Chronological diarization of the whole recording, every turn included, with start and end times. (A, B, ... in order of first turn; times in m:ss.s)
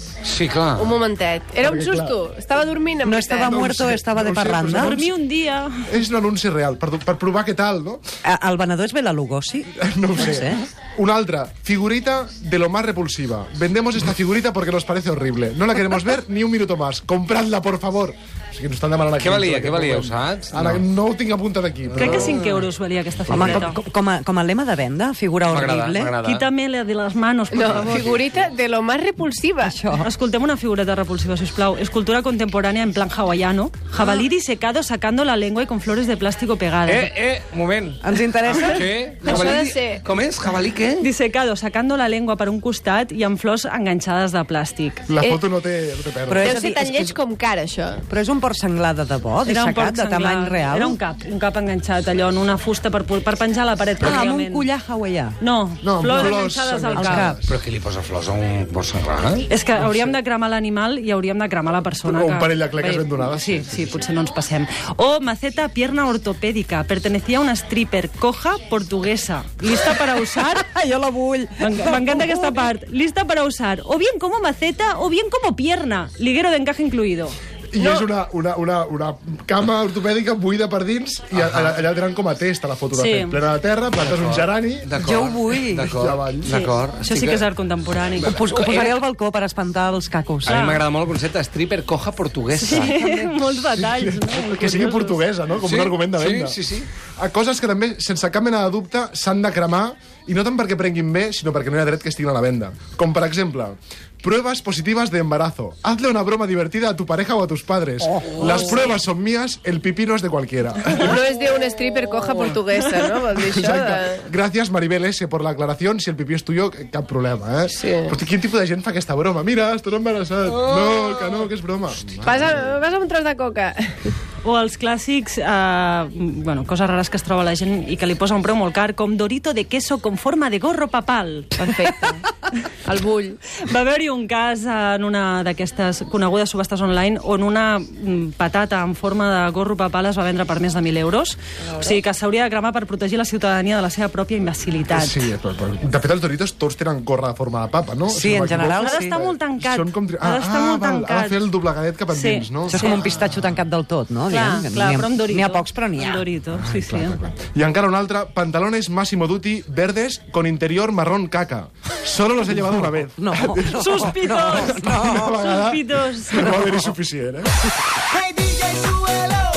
0:00.2-0:01.0 A
0:00.8-0:03.6 B
0:01.6-0:02.2 C
0:03.0-0:04.9 D
0:03.4-0:05.1 C
0:04.6-0:05.8 E
0:05.8-0:08.0 C
0:08.2-0:10.6 D
0:09.8-0:22.3 C
0:19.2-0:20.8 A
0:21.9-0:22.6 A
0:21.9-0:23.8 E
0:23.3-0:23.6 C
0:23.3-0:26.1 D
0:25.5-0:26.4 A
0:26.2-0:28.1 E
0:27.5-0:29.8 B
0:27.7-0:28.2 A
0:29.6-0:30.1 D
0:30.0-0:37.1 E
0:34.0-0:34.2 B
0:36.9-0:41.1 A
0:38.0-0:38.9 D
0:39.2-0:40.0 B
0:41.0-0:45.1 E
0:45.1-0:46.6 C
0:46.3-0:47.1 D
0:46.4-0:48.0 B
0:48.1-0:51.0 D
0:49.4-0:54.7 E
0:54.0-0:55.4 D
0:55.4-0:57.3 E
0:55.8-0:57.6 C
0:56.9-0:57.4 D
0:57.4-0:59.5 A
0:59.5-1:10.7 E
0:59.7-1:00.2 C
1:02.0-1:04.0 C
1:10.3-1:12.7 D
1:11.6-1:18.1 E
1:17.7-1:24.9 C
1:21.3-1:21.8 A
1:22.9-1:23.4 E
1:24.0-1:27.4 A
1:25.0-1:25.9 D
1:25.9-1:26.5 C
1:26.4-1:28.4 E
1:28.2-1:29.0 A
1:28.2-1:30.6 D
1:30.4-1:33.0 A
1:30.4-1:30.8 E
1:32.5-1:35.2 E
1:33.0-1:33.3 D
1:33.6-1:36.6 C
1:35.5-1:36.9 A
1:37.2-1:51.2 C
1:48.3-1:48.7 A
1:50.9-1:54.2 B
1:53.5-2:02.6 C
1:57.8-1:58.2 B
2:02.2-2:03.8 B
2:04.4-2:11.6 E
2:11.6-2:12.2 B
2:12.8-2:13.4 B
2:13.6-2:25.3 E
2:24.9-2:33.0 C
2:28.1-2:29.2 D
2:28.7-2:31.4 E
2:32.1-2:33.1 E
2:32.7-2:36.2 D
2:34.3-2:37.2 E
2:36.5-2:47.5 C
2:42.6-2:45.3 D
2:43.6-2:46.6 E